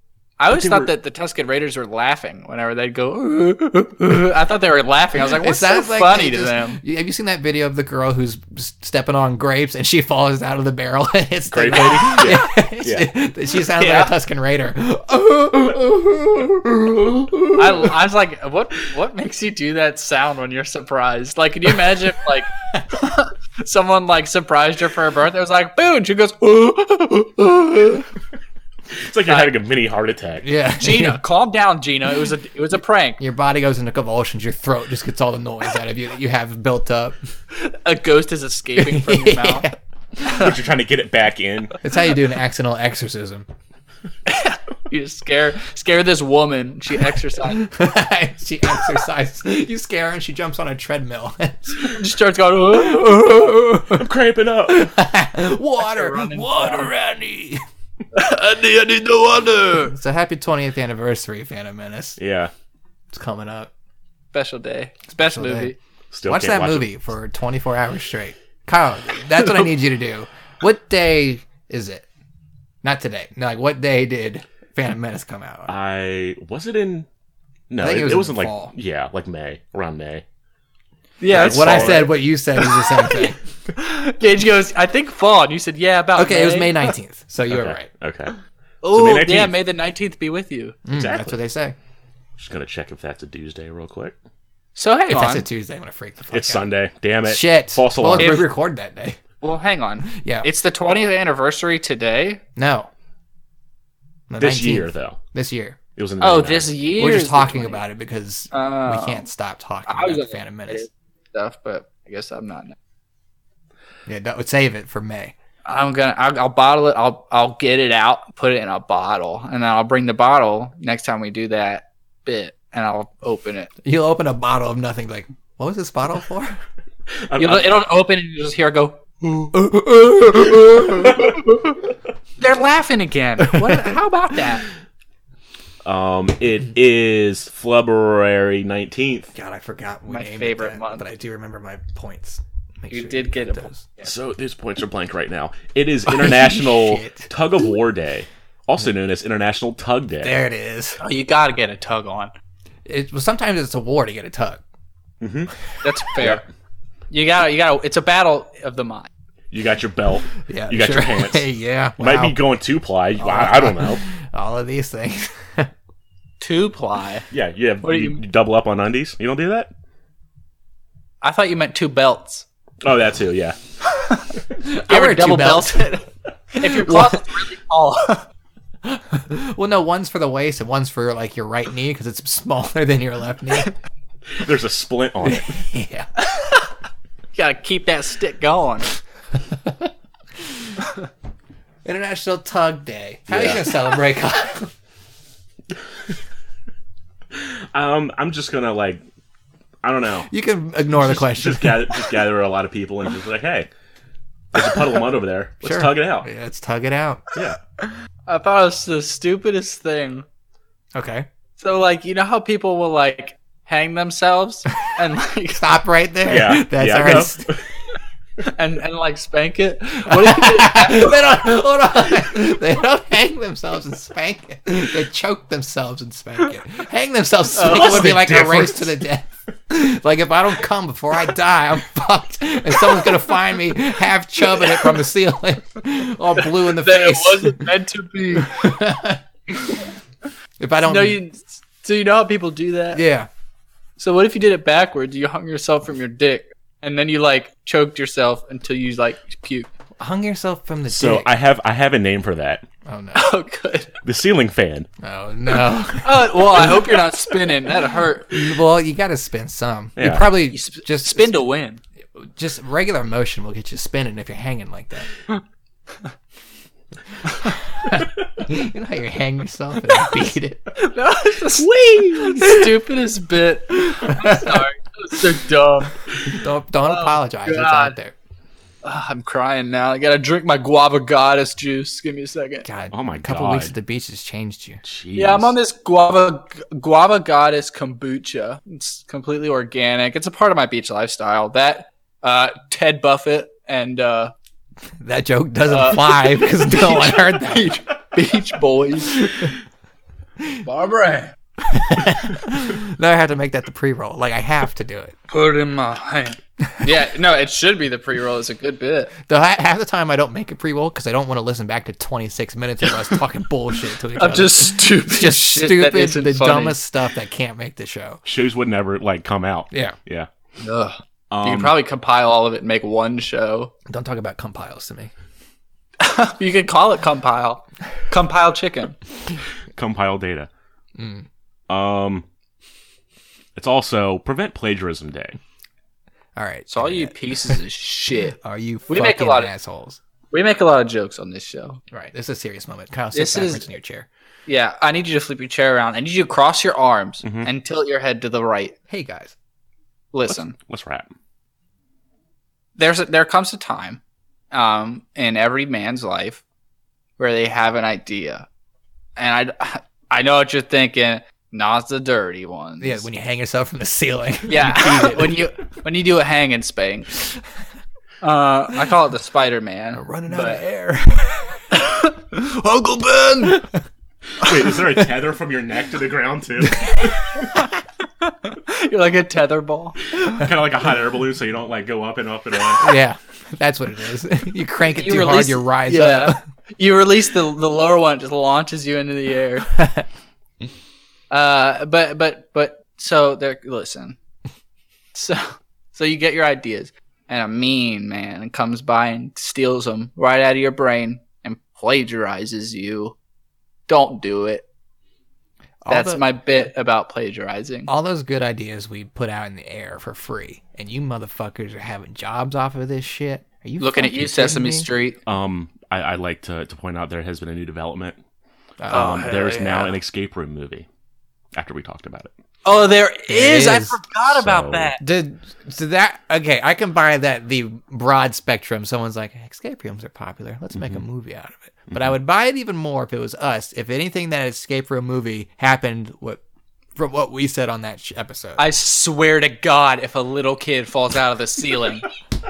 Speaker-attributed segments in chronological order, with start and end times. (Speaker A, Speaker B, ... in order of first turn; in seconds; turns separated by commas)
Speaker A: 0.4-6.8, Speaker B: 0.5-0.9, Speaker C: 5.2-17.4, Speaker B: 11.5-13.1, Speaker A: 13.8-14.1, Speaker A: 17.5-28.1, Speaker B: 29.0-30.5, Speaker A: 29.3-29.5, Speaker C: 30.4-31.2, Speaker A: 30.8-33.2, Speaker C: 33.2-37.2, Speaker A: 37.5-39.7, Speaker C: 38.8-39.8, Speaker B: 40.2-41.8, Speaker C: 41.8-43.5, Speaker A: 44.3-47.7, Speaker C: 47.6-52.0, Speaker A: 51.8-53.5, Speaker C: 52.7-54.1, Speaker B: 53.9-54.9, Speaker C: 54.7-57.6, Speaker A: 55.8-56.9, Speaker A: 58.1-59.9, Speaker C: 59.8-62.2, Speaker B: 62.2-62.5, Speaker C: 63.1-63.7, Speaker A: 64.3-65.8, Speaker C: 65.2-65.7, Speaker B: 66.1-66.9, Speaker C: 66.3-72.0, Speaker C: 72.8-75.7, Speaker B: 75.7-77.1, Speaker B: 77.7-80.2, Speaker C: 77.8-78.7, Speaker A: 81.2-82.1, Speaker B: 81.3-82.1, Speaker C: 81.3-83.4, Speaker A: 82.7-86.9, Speaker C: 86.2-87.9, Speaker B: 87.5-88.3, Speaker A: 88.8-90.8, Speaker B: 88.9-89.5, Speaker C: 90.8-91.7, Speaker B: 90.9-91.4, Speaker B: 92.4-94.2, Speaker A: 94.8-95.5, Speaker C: 95.1-96.7, Speaker B: 96.3-98.5, Speaker C: 97.3-99.2, Speaker A: 98.2-98.5, Speaker A: 99.4-102.4, Speaker C: 100.0-100.5, Speaker C: 102.5-102.9, Speaker C: 104.3-105.8, Speaker B: 104.4-105.2, Speaker B: 106.0-106.7, Speaker A: 106.2-107.8, Speaker C: 107.0-110.9, Speaker A: 108.5-109.3, Speaker A: 109.9-112.8, Speaker C: 114.1-115.3, Speaker A: 115.7-123.7, Speaker C: 123.8-126.6, Speaker B: 127.2-127.8, Speaker A: 127.4-129.5, Speaker C: 129.5-131.3, Speaker A: 130.5-131.7, Speaker B: 131.1-131.3, Speaker A: 132.4-134.7, Speaker C: 133.7-133.9, Speaker B: 135.8-139.3, Speaker C: 139.3-144.0, Speaker A: 140.1-141.0, Speaker A: 142.9-143.7, Speaker B: 144.0-150.3, Speaker C: 146.1-147.3, Speaker C: 150.2-151.0, Speaker A: 151.0-152.3, Speaker C: 152.8-154.6, Speaker B: 155.2-155.5, Speaker A: 155.8-156.4, Speaker B: 156.2-156.4, Speaker A: 157.1-159.1, Speaker B: 159.5-161.4, Speaker C: 160.5-162.4, Speaker B: 162.0-164.0, Speaker C: 163.2-165.7, Speaker A: 166.4-167.3, Speaker B: 167.3-169.7, Speaker A: 167.8-168.2, Speaker A: 171.2-172.5, Speaker B: 172.8-173.6, Speaker A: 173.9-178.3, Speaker C: 174.9-175.9, Speaker C: 176.6-177.2, Speaker C: 178.8-183.7, Speaker B: 184.3-185.5, Speaker C: 185.2-186.1, Speaker A: 186.2-186.7, Speaker A: 187.3-188.9, Speaker C: 189.5-190.8, Speaker C: 191.8-194.7, Speaker B: 193.3-193.8, Speaker B: 197.3-199.0, Speaker B: 199.8-200.3, Speaker C: 200.3-202.2, Speaker B: 200.9-203.7, Speaker B: 204.5-206.3, Speaker C: 204.6-204.8, Speaker C: 205.6-207.2, Speaker A: 208.3-210.2, Speaker C: 210.9-211.3, Speaker A: 211.6-215.8, Speaker C: 215.6-217.6, Speaker B: 216.3-217.6, Speaker A: 218.5-221.2, Speaker C: 220.0-237.7, Speaker A: 227.5-228.2, Speaker B: 227.6-229.0, Speaker A: 236.6-238.7, Speaker C: 238.3-239.2, Speaker C: 240.6-241.2, Speaker A: 240.8-243.0, Speaker C: 242.9-243.3, Speaker A: 244.0-249.7, Speaker C: 250.0-251.3, Speaker B: 250.9-252.7, Speaker C: 252.8-253.2, Speaker A: 253.1-254.0, Speaker B: 254.0-254.9, Speaker C: 255.0-257.7, Speaker A: 256.0-258.5, Speaker C: 258.3-261.4, Speaker B: 260.0-260.3, Speaker A: 260.5-261.8, Speaker C: 262.1-265.1, Speaker C: 267.3-270.6, Speaker A: 270.8-276.1, Speaker B: 271.7-272.5, Speaker C: 274.1-274.6, Speaker C: 276.2-278.1, Speaker A: 276.8-277.9, Speaker A: 278.8-282.6, Speaker C: 282.6-284.8, Speaker B: 282.9-283.7, Speaker B: 284.8-285.5, Speaker A: 285.1-294.3, Speaker C: 295.0-297.8, Speaker A: 295.7-299.5, Speaker C: 299.2-299.5, Speaker A: 300.6-301.4, Speaker C: 301.6-305.1, Speaker A: 305.3-309.1, Speaker C: 309.2-318.2, Speaker A: 314.1-316.8, Speaker B: 318.2-320.3, Speaker C: 319.7-319.9, Speaker A: 320.6-323.7, Speaker B: 321.3-321.8, Speaker C: 323.9-325.1, Speaker A: 326.0-329.0, Speaker B: 329.8-330.5, Speaker C: 330.9-331.3, Speaker B: 331.7-332.2, Speaker B: 333.6-335.4, Speaker C: 336.4-337.6, Speaker A: 336.7-338.4, Speaker C: 338.3-340.0, Speaker A: 338.9-339.5, Speaker A: 340.3-341.8, Speaker C: 341.9-344.1, Speaker A: 343.1-343.7, Speaker A: 344.5-348.8, Speaker B: 347.2-347.5, Speaker C: 348.9-349.4, Speaker A: 350.1-350.5, Speaker B: 350.3-351.1, Speaker A: 352.8-354.0, Speaker A: 354.5-356.4, Speaker A: 357.2-358.5, Speaker A: 359.2-363.1, Speaker C: 362.8-365.5, Speaker A: 364.5-367.1, Speaker A: 368.2-370.6, Speaker C: 369.9-372.0, Speaker A: 371.7-373.6, Speaker C: 373.4-373.8, Speaker B: 374.4-377.5, Speaker A: 378.2-380.0, Speaker B: 380.2-382.9, Speaker C: 382.8-386.4, Speaker A: 384.9-389.7, Speaker C: 389.8-390.0, Speaker A: 391.3-394.2, Speaker A: 395.1-403.1, Speaker A: 403.9-404.6, Speaker C: 405.8-406.2, Speaker A: 405.9-407.9, Speaker C: 407.9-414.9, Speaker A: 413.8-415.2, Speaker B: 415.2-418.2, Speaker C: 418.8-419.3, Speaker B: 418.9-420.9, Speaker A: 418.9-419.9, Speaker B: 421.5-422.3, Speaker A: 422.6-425.0, Speaker C: 423.3-424.0, Speaker B: 424.3-424.9, Speaker C: 425.0-436.4, Speaker B: 430.8-431.0, Speaker C: 436.9-438.6, Speaker A: 438.6-442.1